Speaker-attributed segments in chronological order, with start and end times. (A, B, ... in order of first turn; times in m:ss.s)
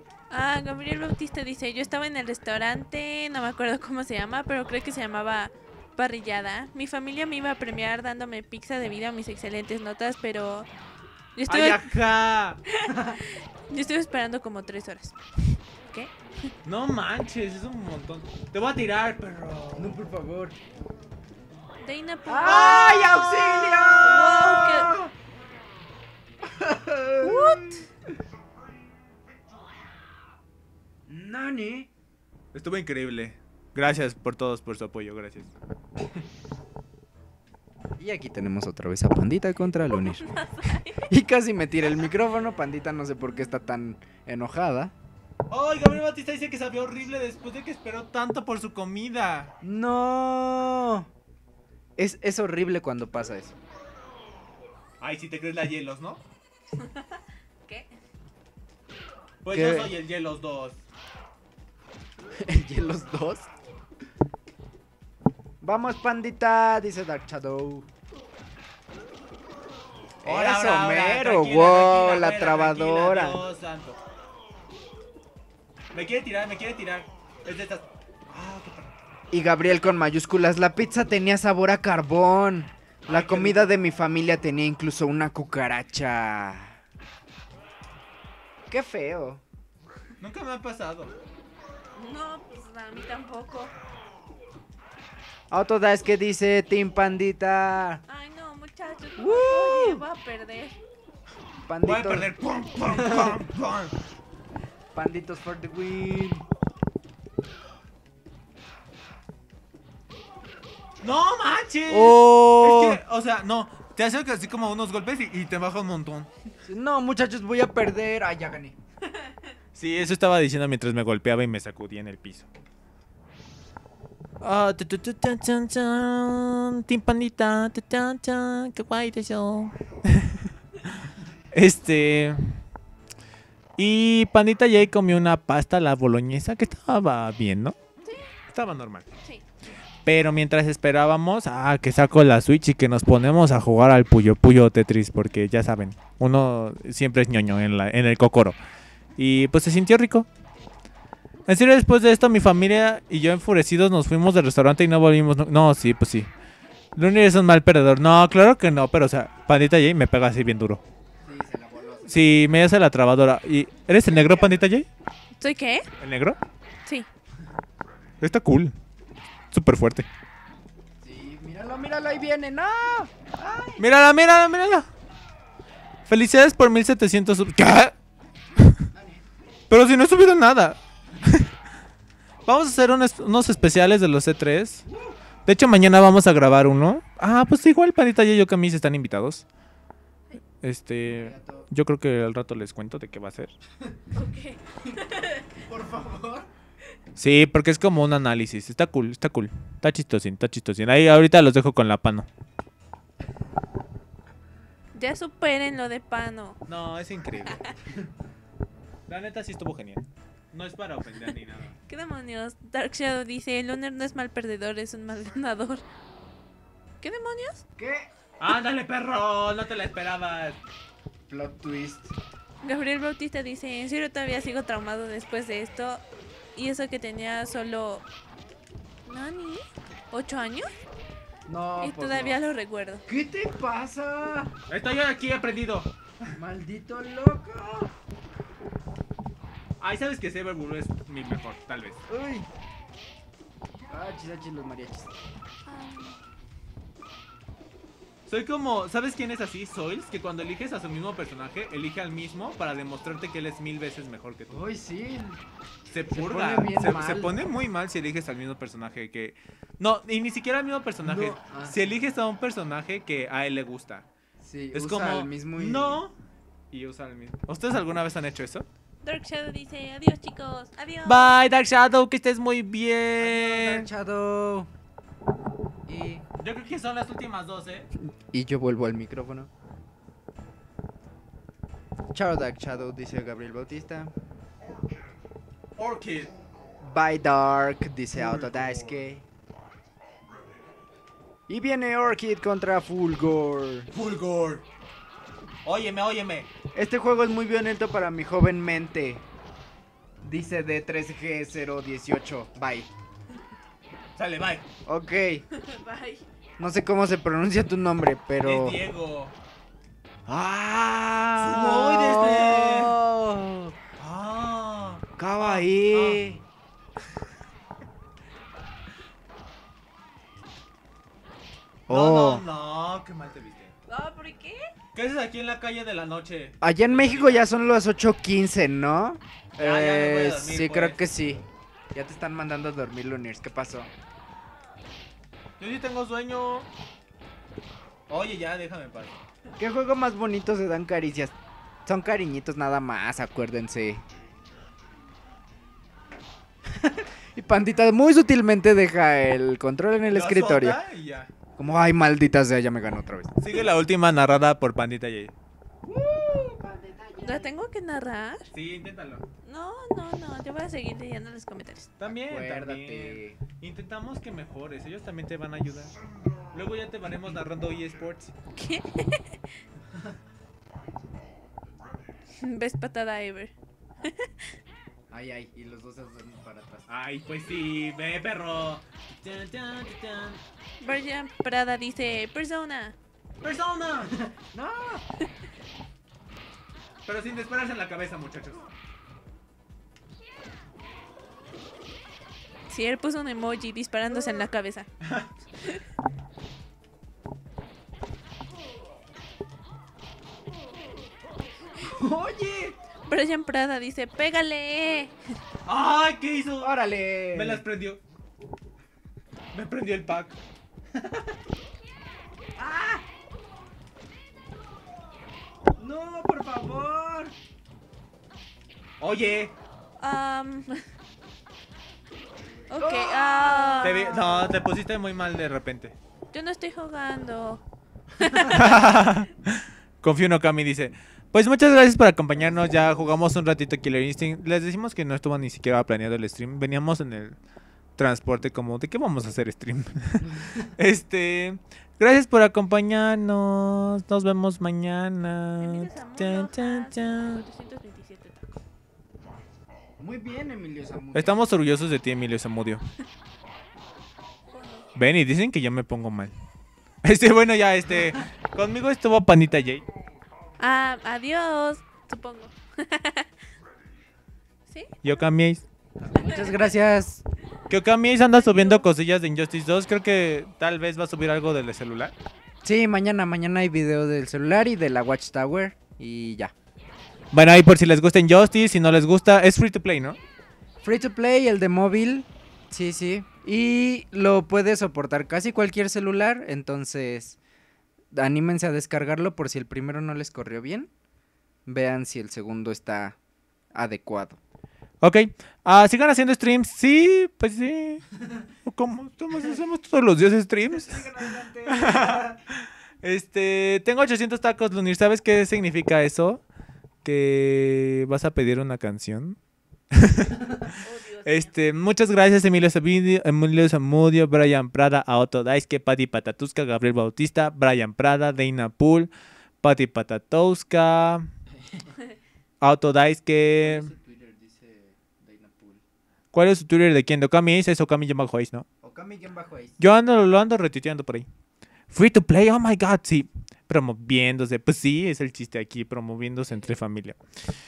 0:00.3-0:10.7 A
0:11.4-0:12.0 A
0:11.5-0:12.6 B
0:12.7-0:16.1 A
0:12.9-0:13.2 C
0:16.6-0:20.0 B
0:19.7-0:20.6 C
0:21.8-0:24.9 A
0:22.2-0:25.1 C
0:22.4-0:23.2 B
0:26.4-0:27.8 C
0:27.2-0:27.8 A
0:31.1-0:31.9 C
0:32.5-0:35.5 B
0:36.0-0:36.2 C
0:38.0-0:40.4 C
0:40.0-0:41.1 A
0:41.0-0:44.9 C
0:45.5-0:49.5 B
0:49.6-0:51.1 C
0:52.0-0:53.6 C
0:55.0-0:56.2 B
0:56.8-0:57.9 A
0:59.4-1:00.8 B
0:59.5-0:59.9 C
1:02.3-1:03.5 C
1:05.6-1:07.9 C
1:10.2-1:13.4 C
1:10.2-1:14.0 B
1:15.9-1:18.9 B
1:19.3-1:26.8 C
1:23.1-1:23.7 B
1:28.7-1:29.4 C
1:30.2-1:31.1 B
1:32.0-1:33.7 A
1:35.5-1:38.0 C
1:38.1-1:40.8 A
1:39.2-1:40.0 C
1:41.6-1:42.3 C
1:41.8-1:43.9 B
1:42.9-1:43.3 C
1:44.9-1:46.4 C
1:51.0-1:56.3 B
1:51.9-1:53.0 C
1:56.6-1:58.8 C
1:59.7-2:02.5 B
2:04.4-2:10.5 B
2:11.5-2:12.6 B
2:13.8-2:17.8 B
2:18.5-2:19.1 B
2:20.0-2:28.6 B
2:29.2-2:30.3 B
2:31.4-2:36.3 B
2:37.0-2:40.8 B
2:41.2-2:42.5 C
2:42.1-2:44.9 B
2:44.1-2:44.5 C
2:45.4-2:45.9 A
2:46.0-2:46.4 B
2:48.2-2:48.7 B
2:49.5-2:50.1 B
2:51.0-2:53.8 C
2:53.8-2:54.9 B
2:56.1-2:57.9 B
2:58.9-2:59.2 C
2:59.7-3:01.5 B
3:02.4-3:04.8 B
3:04.9-3:05.2 C
3:05.4-3:09.4 B
3:10.6-3:13.5 B
3:11.1-3:11.7 C
3:14.1-3:15.5 A
3:15.6-3:16.5 C
3:17.2-3:22.3 B
3:24.9-3:26.6 A
3:26.7-3:27.6 B
3:29.1-3:31.8 B
3:31.9-3:35.8 A
3:37.0-3:37.6 A
3:37.8-3:38.1 C
3:38.4-3:40.6 B
3:41.3-3:42.1 C
3:42.6-3:46.0 A
3:46.6-3:48.0 A
3:49.0-3:50.7 A
3:51.5-3:52.4 C
3:51.8-3:53.0 A
3:53.1-3:54.5 C
3:54.7-3:55.9 B
3:56.3-3:57.9 C
3:59.8-4:02.0 B
4:02.1-4:02.5 C
4:03.9-4:05.1 C
4:05.7-4:06.2 A
4:08.3-4:14.6 B
4:14.5-4:15.4 C
4:15.9-4:24.0 B
4:16.1-4:17.3 C
4:21.0-4:21.8 C
4:24.4-4:26.0 C
4:24.7-4:26.2 B
4:26.7-4:28.6 B
4:29.0-4:31.3 A
4:31.0-4:33.9 B
4:33.2-4:34.7 C
4:35.8-4:36.2 C
4:36.4-4:37.9 B
4:38.0-4:39.5 C
4:42.1-4:44.1 C
4:45.8-4:46.3 B
4:46.8-4:49.2 C
4:48.1-4:49.0 B
4:51.5-4:53.9 C
4:53.9-4:54.6 B
4:55.6-4:56.5 B
4:56.7-4:59.2 C
5:00.2-5:02.9 C
5:04.2-5:04.6 B
5:04.8-5:05.4 C
5:05.5-5:06.2 A
5:06.6-5:08.8 C
5:08.4-5:09.4 B
5:10.3-5:13.7 C
5:11.4-5:13.0 B
5:14.0-5:16.2 B
5:15.2-5:16.4 C
5:21.9-5:22.4 C
5:21.9-5:23.7 B
5:23.9-5:24.7 A
5:24.9-5:27.5 B
5:26.6-5:33.9 C
5:29.6-5:31.0 B
5:35.6-5:36.7 B
5:38.1-5:39.2 B
5:39.6-5:44.0 C
5:46.6-5:50.8 C
5:50.1-5:51.3 B
5:51.6-5:53.4 C
5:53.4-5:55.3 B
5:55.8-5:57.6 C
5:57.2-5:58.5 A
5:58.5-5:59.2 B
5:59.4-6:01.9 A
6:02.0-6:05.9 B
6:02.0-6:03.4 C
6:06.5-6:08.3 B
6:08.6-6:09.4 A
6:12.4-6:13.5 A
6:14.0-6:14.4 A
6:15.1-6:16.9 C
6:16.9-6:20.4 B
6:20.8-6:23.0 A
6:23.4-6:24.1 B
6:24.1-6:25.0 C
6:27.0-6:28.6 B
6:32.7-6:34.9 A
6:34.1-6:34.5 C
6:35.0-6:35.3 B
6:41.8-6:42.8 C
6:43.1-6:45.1 A
6:45.7-6:46.7 B
6:46.6-6:47.6 C
6:47.3-6:48.0 B
6:49.5-6:50.4 B
6:52.6-6:53.0 C
6:55.8-6:57.3 C
6:59.0-6:59.5 B
7:00.0-7:00.8 A
7:02.7-7:04.2 A
7:02.7-7:04.5 C
7:03.8-7:06.0 B
7:06.3-7:07.6 A
7:08.2-7:08.9 A
7:08.4-7:17.4 B
7:12.5-7:13.0 C
7:18.0-7:27.4 B
7:20.2-7:20.7 C
7:25.6-7:28.5 A
7:30.0-7:31.4 C
7:31.1-7:32.8 B
7:34.5-7:34.9 A
7:34.9-7:36.3 B
7:37.0-7:39.8 B
7:40.6-7:43.3 A
7:44.7-7:44.9 A
7:45.0-7:45.6 B
7:46.0-7:47.2 C
7:46.1-7:46.5 A
7:47.7-7:52.1 B
7:48.3-7:48.8 A
7:52.6-7:56.5 C
7:57.3-8:00.2 B
8:00.8-8:07.4 C
8:08.1-8:10.9 C
8:11.6-8:13.2 C
8:13.7-8:14.4 C
8:15.0-8:18.0 B
8:18.6-8:21.0 B
8:20.7-8:22.4 C
8:21.6-8:26.4 B
8:27.0-8:29.4 B
8:29.9-8:41.3 B
8:30.8-8:31.5 A
8:41.5-8:41.9 C
8:42.6-8:43.9 B
8:43.6-8:45.8 C
8:46.3-8:48.6 B
8:48.8-8:49.8 C
8:49.8-8:51.2 B
8:51.9-8:57.2 B